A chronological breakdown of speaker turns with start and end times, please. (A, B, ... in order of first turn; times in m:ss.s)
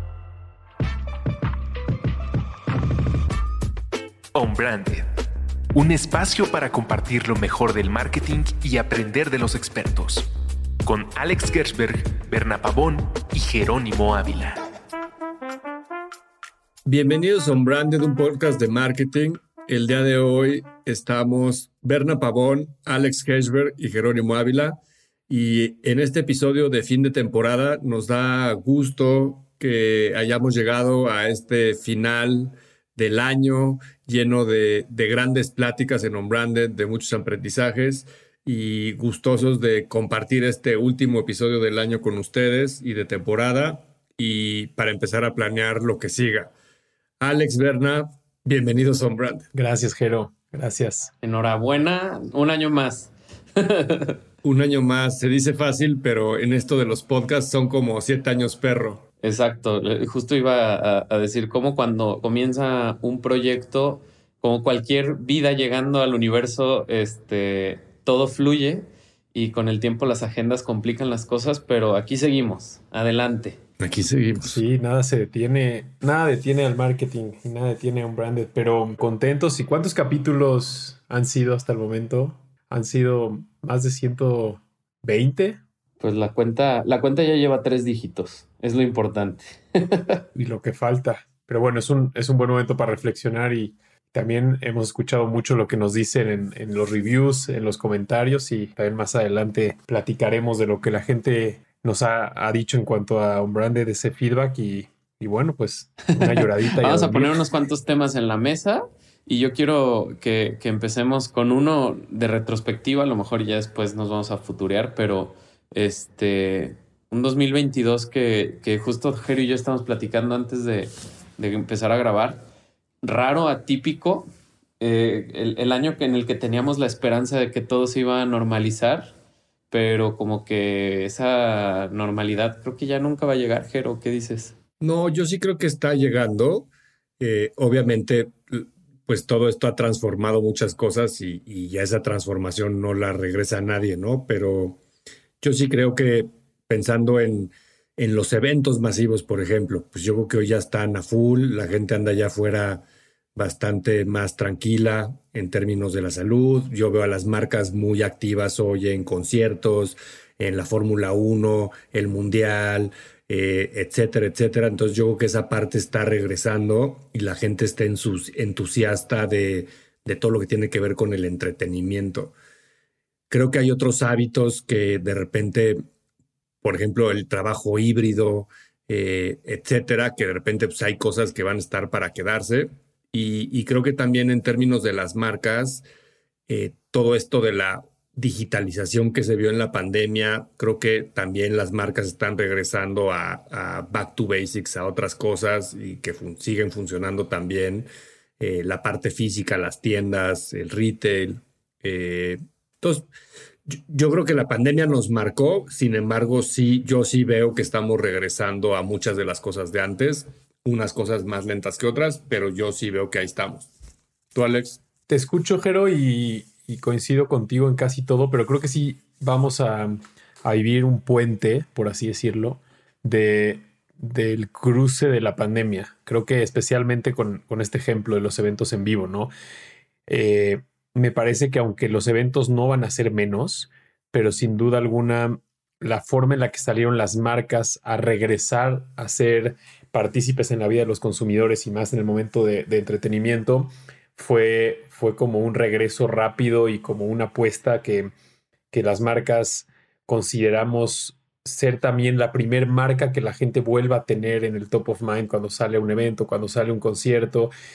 0:04.3-0:05.1 A
0:05.7-0:10.3 A
0:10.8-0:14.6 A
0:16.8-0:46.5 B
0:47.2-0:49.5 B
0:49.5-0:51.1 C
0:51.2-0:54.2 D
0:54.4-0:59.0 B
0:59.2-1:13.6 D
1:13.8-1:14.6 B
1:14.4-1:25.6 C
1:26.0-1:30.2 D
1:30.3-1:47.4 C
1:46.2-2:02.4 D
2:03.0-2:04.3 D
2:04.8-2:09.1 D
2:09.7-2:14.5 D
2:14.8-2:24.8 B
2:25.4-2:32.8 B
2:33.3-2:52.3 B
2:53.3-2:55.8 B
2:56.6-3:05.8 B
3:06.5-3:17.9 B
3:18.4-3:23.1 B
3:23.7-3:33.7 B
3:34.3-3:34.8 B
3:35.1-3:49.3 C
3:50.1-4:08.1 C
4:08.7-4:17.5 C